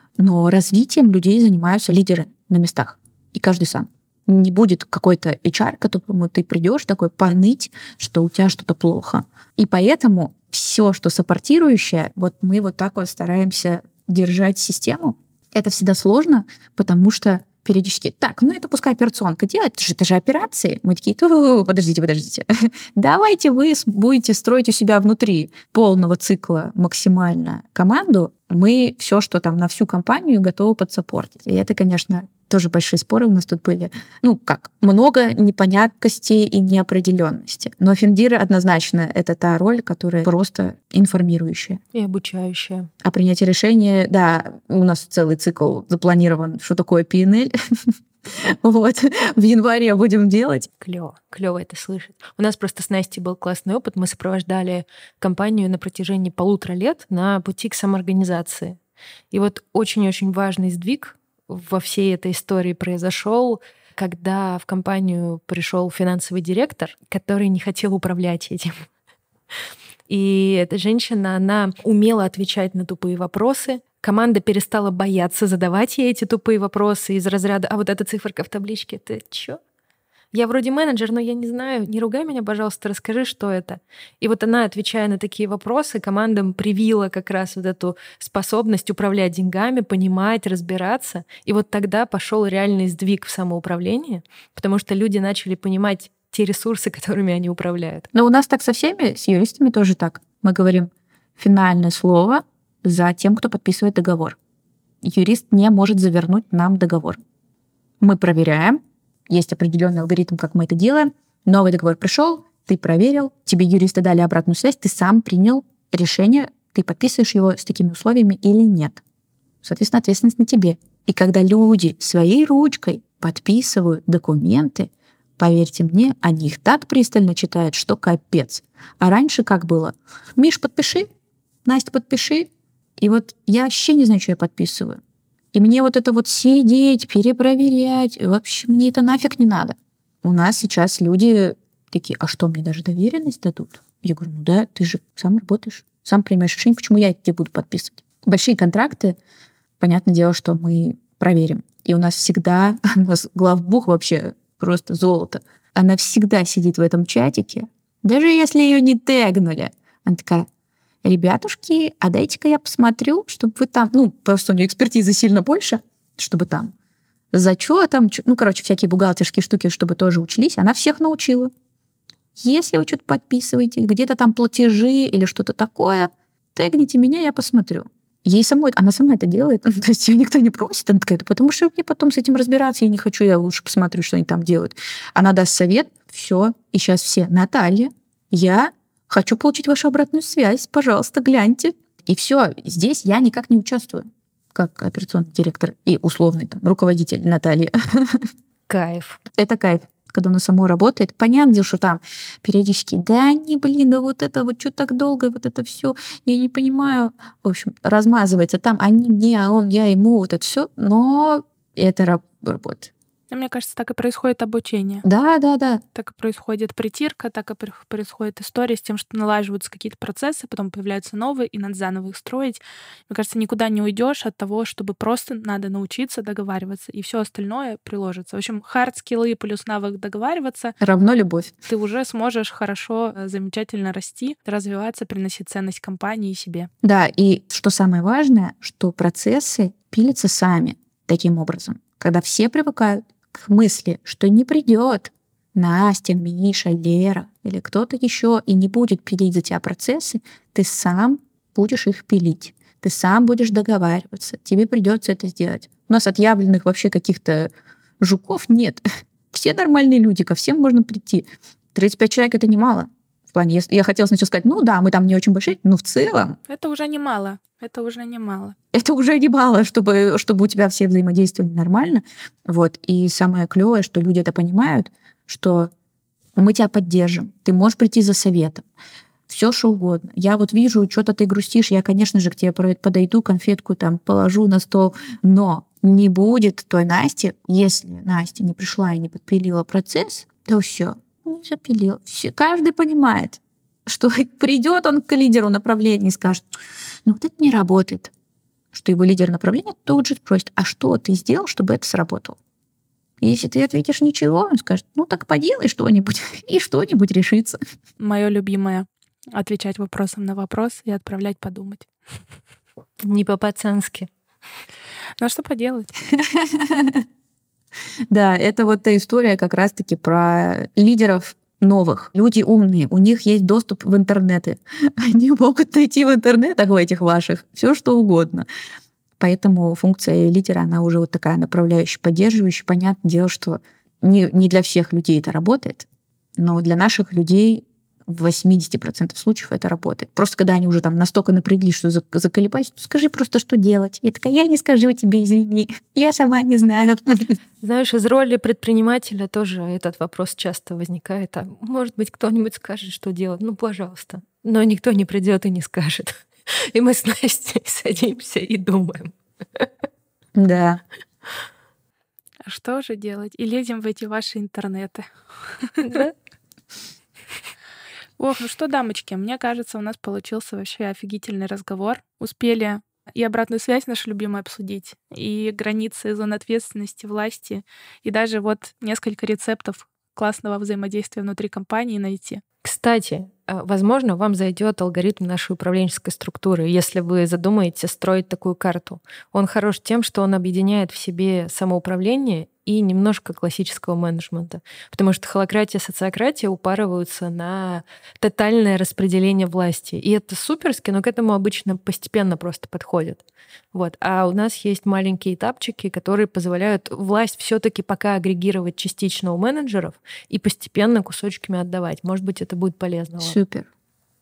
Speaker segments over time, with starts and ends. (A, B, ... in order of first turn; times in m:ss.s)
0:00.2-0:41.8 A
0:41.9-0:42.9 B
0:43.0-0:50.7 A
0:50.8-0:58.8 B
0:59.3-1:08.9 B
1:10.1-1:19.6 B
1:20.3-1:38.1 B
1:38.1-1:44.4 A
1:45.0-1:47.2 A
1:48.0-1:59.0 A
1:59.6-2:11.1 A
2:11.6-2:15.0 A
2:15.5-2:29.2 A
2:29.8-2:40.5 A
2:41.0-2:46.7 A
2:47.3-2:51.5 A
2:52.4-3:18.3 A
3:18.7-3:19.2 B
3:19.4-3:32.9 A
3:33.3-3:35.0 C
3:35.0-3:35.8 A
3:36.0-3:50.8 C
3:50.8-3:51.5 A
3:51.7-3:56.7 C
3:56.8-4:26.4 A
4:26.5-4:28.6 C
4:28.7-4:35.7 A
4:36.4-4:38.7 A
4:39.3-4:56.4 A
4:57.0-4:58.1 A
4:58.7-5:02.4 A
5:03.2-5:07.6 A
5:08.0-5:11.9 C
5:13.0-5:14.1 B
5:15.2-5:15.9 C
5:16.1-5:17.0 A
5:18.1-5:28.5 A
5:29.2-5:35.9 A
5:36.4-5:47.4 A
5:47.6-5:59.7 B
6:00.4-6:00.8 A
6:02.4-6:05.1 C
6:05.6-6:06.1 C
6:05.8-6:06.1 B
6:08.2-6:22.4 C
6:22.6-6:53.4 B
6:53.2-6:53.7 A